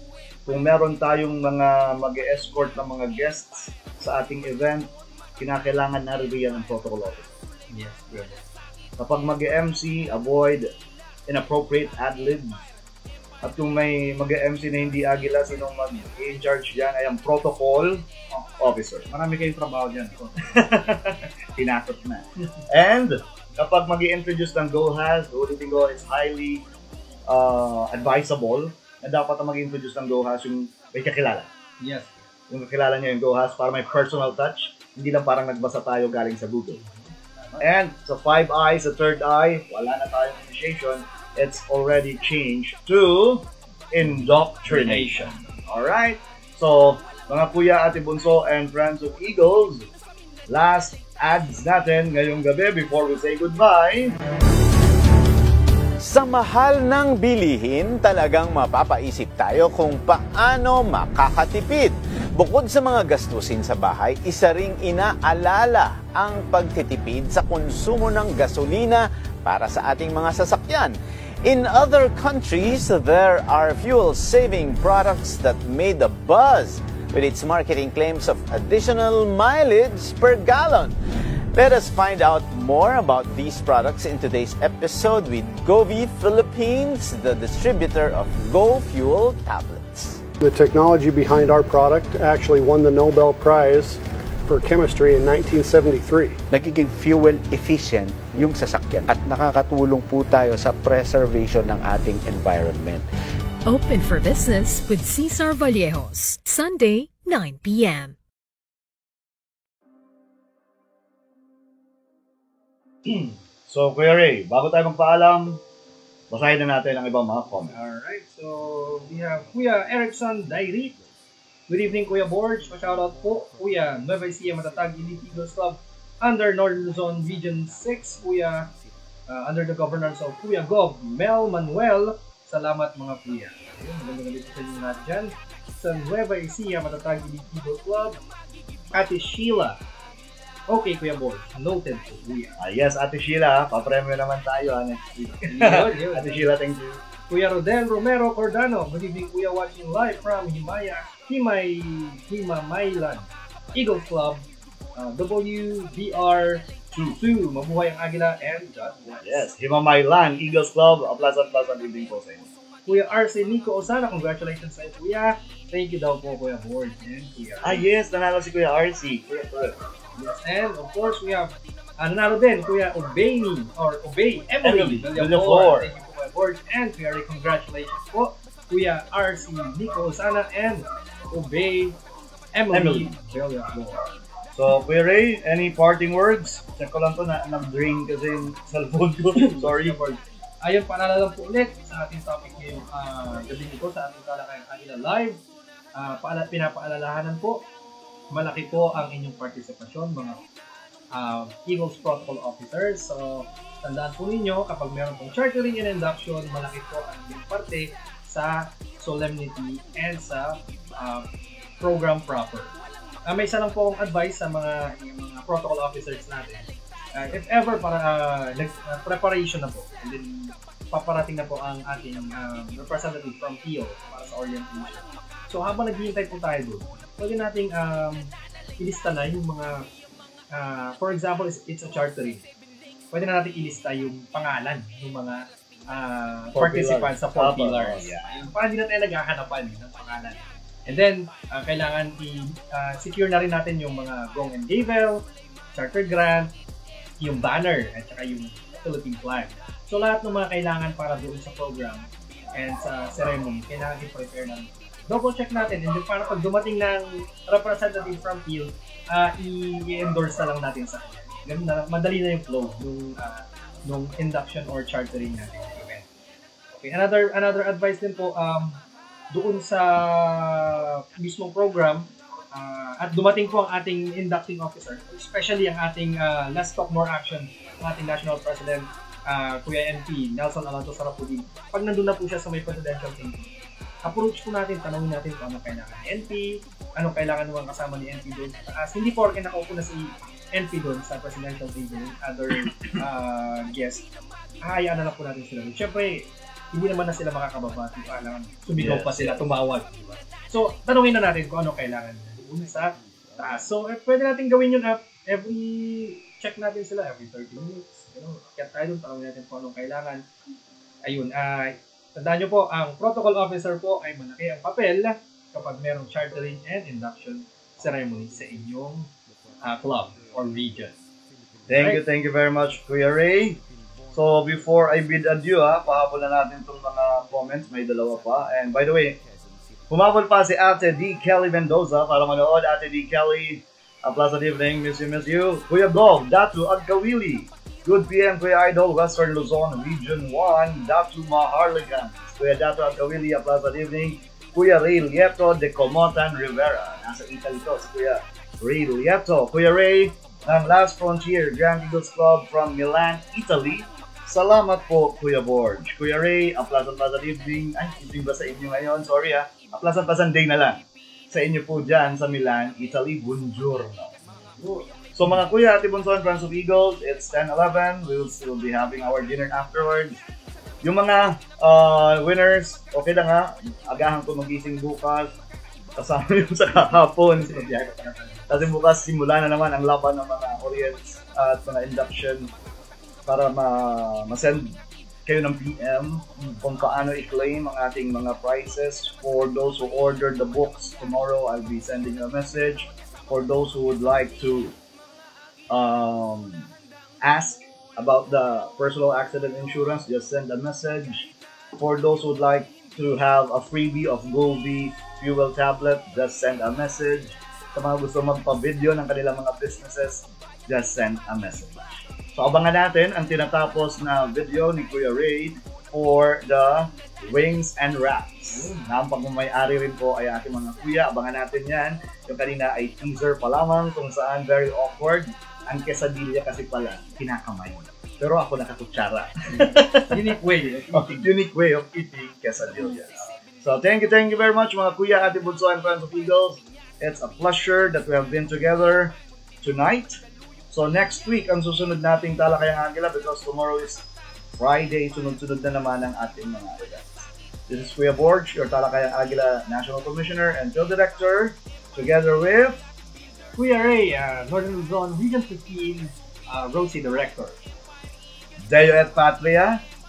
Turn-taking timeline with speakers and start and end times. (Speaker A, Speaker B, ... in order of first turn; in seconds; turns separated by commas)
Speaker A: 0.4-7.4, Speaker B: 7.7-8.4, Speaker A: 9.0-10.7, Speaker A: 11.3-12.6, Speaker A: 13.4-18.0, Speaker A: 18.6-19.1, Speaker B: 19.1-20.5, Speaker A: 20.4-26.6, Speaker A: 27.3-31.5, Speaker B: 31.8-32.2, Speaker A: 32.5-36.8, Speaker B: 36.7-37.6, Speaker A: 37.6-49.9, Speaker B: 44.6-45.4, Speaker A: 50.5-54.2, Speaker C: 56.0-81.0, Speaker C: 81.5-90.2, Speaker D: 90.4-96.4, Speaker E: 96.5-103.1, Speaker F: 103.7-108.2, Speaker A: 113.0-115.6, Speaker A: 116.3-117.8, Speaker B: 117.7-121.0, Speaker B: 121.7-128.7, Speaker B: 129.3-138.2, Speaker B: 138.9-139.8, Speaker B: 140.7-142.6, Speaker A: 142.6-147.0, Speaker B: 145.5-146.5, Speaker B: 147.3-159.5, Speaker A: 156.9-157.2, Speaker A: 159.2-162.5, Speaker B: 162.8-167.8, Speaker A: 167.6-169.8, Speaker B: 170.2-182.0, Speaker A: 174.6-175.9, Speaker B: 182.5-184.1, Speaker A: 182.7-183.1, Speaker A: 184.5-190.1, Speaker B: 189.3-195.4, Speaker B: 195.9-197.6, Speaker B: 198.3-200.4, Speaker B: 201.1-211.2, Speaker B: 211.8-212.8, Speaker B: 213.3-229.8, Speaker B: 230.5-232.4, Speaker B: 233.1-245.2, Speaker A: 236.5-238.5, Speaker B: 245.7-246.5, Speaker B: 247.2-266.1, Speaker B: 266.8-268.8, Speaker B: 269.3-283.5, Speaker B: 284.0-294.0, Speaker B: 294.6-310.2, Speaker A: 298.7-299.4, Speaker B: 311.0-319.1, Speaker B: 319.6-320.9, Speaker A: 321.7-323.6, Speaker B: 321.7-322.0, Speaker A: 324.1-329.2, Speaker A: 329.9-364.1, Speaker B: 364.3-364.9, Speaker A: 365.1-370.2, Speaker A: 370.8-375.3, Speaker A: 376.0-377.7, Speaker B: 377.4-378.7, Speaker A: 378.5-382.5, Speaker A: 383.2-394.7, Speaker A: 395.7-396.7, Speaker A: 397.2-440.2, Speaker B: 418.5-418.8, Speaker B: 429.5-431.3, Speaker B: 432.9-433.2, Speaker A: 440.7-444.1, Speaker A: 444.6-452.8, Speaker B: 453.6-457.6, Speaker A: 458.6-459.8